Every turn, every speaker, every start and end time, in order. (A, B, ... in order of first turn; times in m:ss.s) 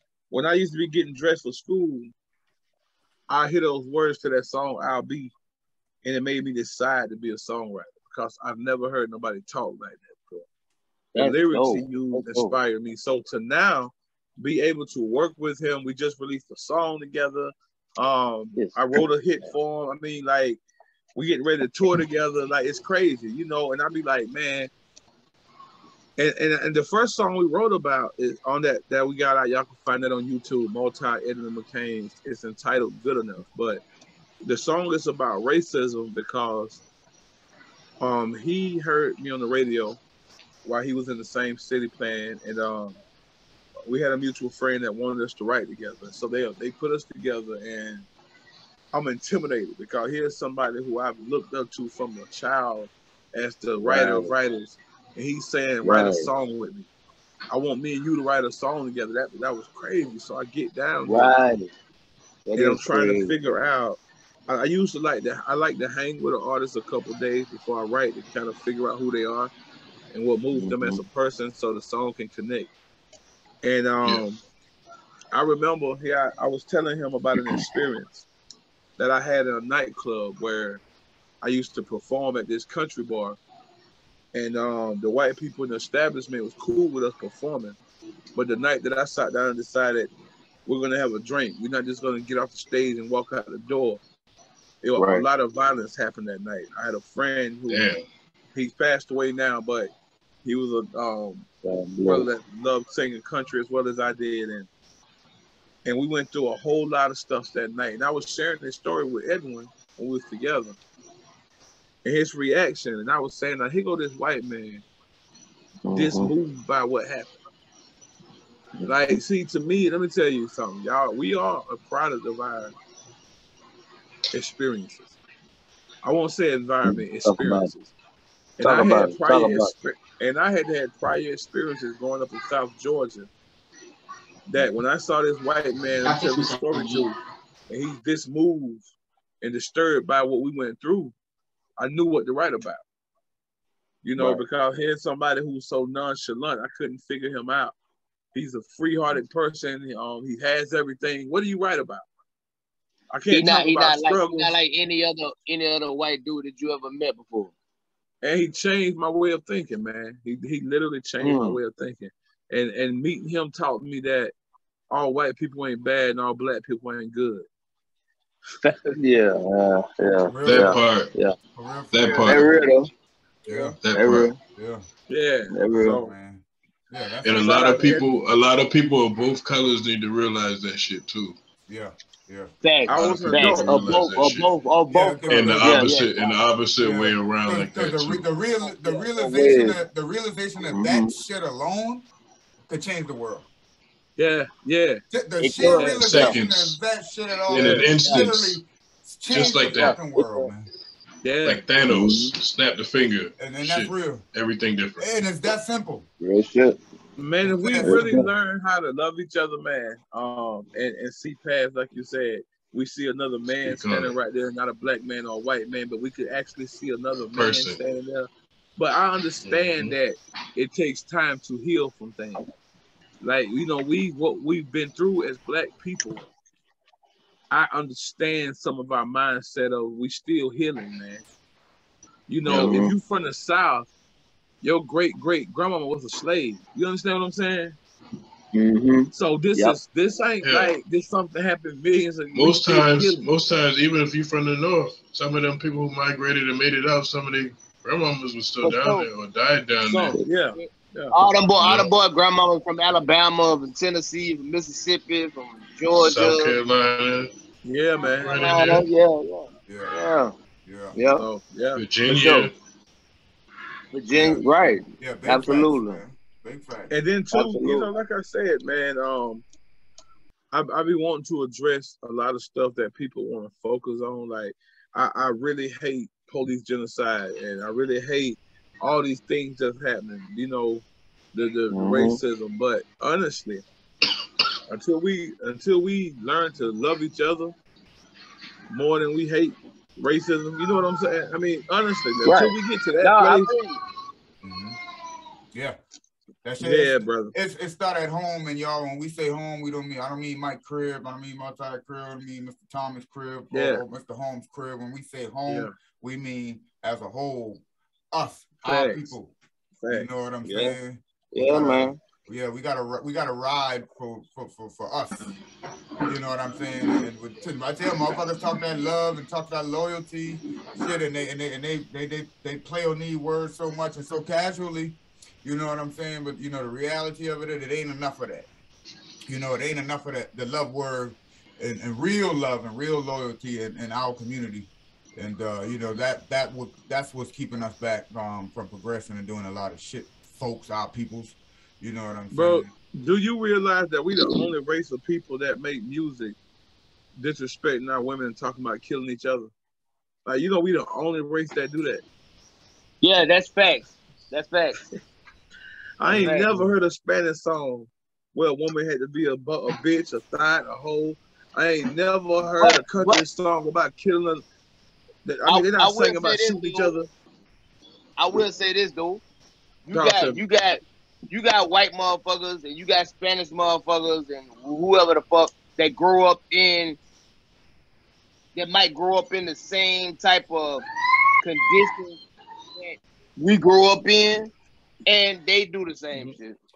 0:00.3-0:02.1 A
0:03.3-0:05.3 A
0:06.0-0:10.5 A
0:11.2-0:12.5 B
0:11.2-0:20.6 A
0:18.6-0:19.0 B
0:21.2-0:24.7 A
0:26.2-0:33.8 A
0:34.4-0:36.8 A
0:38.0-0:40.0 A
0:40.6-0:43.0 A
0:43.9-0:48.1 A
0:48.9-0:56.9 A
0:53.8-0:54.3 B
0:55.8-0:56.3 B
0:57.5-1:01.3 A
1:01.0-1:01.7 B
1:02.5-1:03.4 B
1:02.6-1:09.5 A
1:10.1-1:12.7 A
1:10.5-1:11.0 B
1:13.6-1:14.4 A
1:15.3-1:18.3 A
1:19.0-1:20.8 A
1:21.4-1:23.4 A
1:24.3-1:27.8 A
1:28.4-1:30.1 A
1:30.7-1:34.0 A
1:34.8-1:37.9 A
1:35.0-1:35.2 B
1:37.7-1:38.0 C
1:38.5-1:39.9 A
1:40.4-1:41.5 A
1:41.6-1:42.3 B
1:42.0-1:44.7 A
1:45.8-1:50.8 A
1:52.0-1:54.8 A
1:55.9-1:56.3 B
1:55.9-1:57.4 A
1:58.8-2:02.7 A
2:04.3-2:05.2 A
2:06.0-2:07.9 A
2:06.8-2:07.7 B
2:08.6-2:13.3 A
2:08.6-2:09.7 B
2:14.5-2:17.2 A
2:17.7-2:18.8 A
2:19.4-2:21.1 A
2:21.8-2:22.8 A
2:24.0-2:27.8 A
2:24.2-2:24.4 B
2:28.3-2:32.1 A
2:33.1-2:34.6 A
2:33.3-2:37.5 B
2:38.2-2:44.3 A
2:41.2-2:41.6 B
2:44.9-2:47.5 A
2:48.6-2:51.4 B
2:50.2-2:50.8 D
2:50.4-2:51.1 C
2:51.5-2:52.5 D
2:51.9-2:52.6 C
2:52.2-2:52.9 B
2:53.4-2:53.8 D
2:53.5-2:53.8 A
2:53.8-2:54.3 C
2:54.0-2:54.4 B
2:54.6-2:54.8 D
2:55.1-2:56.1 A
2:55.5-2:56.0 B
2:55.7-2:57.9 D
2:57.2-3:01.4 C
2:57.3-2:58.1 A
3:01.7-3:02.5 D
3:02.6-3:06.3 B
3:02.9-3:03.8 A
3:02.9-3:04.5 C
3:04.9-3:06.0 D
3:05.3-3:08.2 C
3:06.8-3:12.0 D
3:08.7-3:09.8 B
3:10.6-3:11.1 B
3:12.7-3:13.5 D
3:14.2-3:15.0 A
3:15.1-3:20.7 D
3:15.4-3:16.4 B
3:15.6-3:16.8 C
3:17.5-3:18.6 C
3:17.5-3:17.9 A
3:19.3-3:20.0 C
3:19.8-3:20.5 B
3:21.2-3:21.7 A
3:21.4-3:25.1 C
3:21.8-3:22.3 B
3:23.4-3:24.2 D
3:25.0-3:26.1 D
3:26.2-3:26.8 B
3:27.2-3:42.4 A
3:27.4-3:28.1 D
3:27.8-3:28.3 B
3:33.6-3:34.1 C
3:37.3-3:37.8 C
3:39.4-3:40.0 C
3:43.2-3:46.3 A
3:47.5-3:51.2 A
3:52.3-3:53.9 A
3:52.5-3:52.9 C
3:52.5-3:52.9 B
3:54.6-3:57.8 A
3:58.5-3:59.8 B
3:59.1-4:03.6 A
4:00.4-4:00.8 C
4:02.4-4:10.2 C
4:08.6-4:09.1 B
4:09.9-4:11.2 A
4:10.2-4:16.6 B
4:11.6-4:11.9 C
4:16.0-4:17.3 C
4:17.6-4:18.3 A
4:18.2-4:18.9 C
4:18.2-4:20.3 B
4:19.7-4:20.0 D
4:20.6-4:21.0 D
4:21.0-4:21.2 B
4:21.1-4:21.8 A
4:21.8-4:22.5 C
4:22.1-4:22.5 B
4:23.9-4:26.0 B
4:24.1-4:24.5 D
4:25.0-4:26.9 D
4:26.9-4:29.4 A
4:27.3-4:27.9 B
4:30.5-4:43.6 A
4:41.7-4:42.2 B
4:44.7-4:47.5 A
4:48.7-4:53.5 A
4:52.2-4:53.8 B
4:54.4-4:54.8 D
4:56.4-5:09.4 D
4:56.6-4:57.3 A
5:03.5-5:03.8 A
5:05.5-5:05.7 A
5:08.6-5:09.1 A
5:09.8-5:10.7 A
5:09.9-5:15.3 D
5:10.5-5:10.8 B
5:11.3-5:12.0 B
5:16.1-5:28.5 D
5:29.3-5:42.7 D
5:42.3-5:46.4 A
5:44.2-5:44.5 B
5:47.2-5:49.5 A
5:50.2-5:52.0 A
5:53.0-5:54.8 B
5:56.0-6:04.4 A
5:56.1-5:56.5 B
6:02.6-6:03.2 B
6:05.2-6:07.1 A
6:05.5-6:06.9 B
6:08.2-6:09.2 B
6:09.9-6:17.0 B
6:09.9-6:10.4 A
6:18.6-6:20.8 B
6:21.4-6:22.2 B
6:22.8-6:24.5 B
6:25.1-6:26.6 B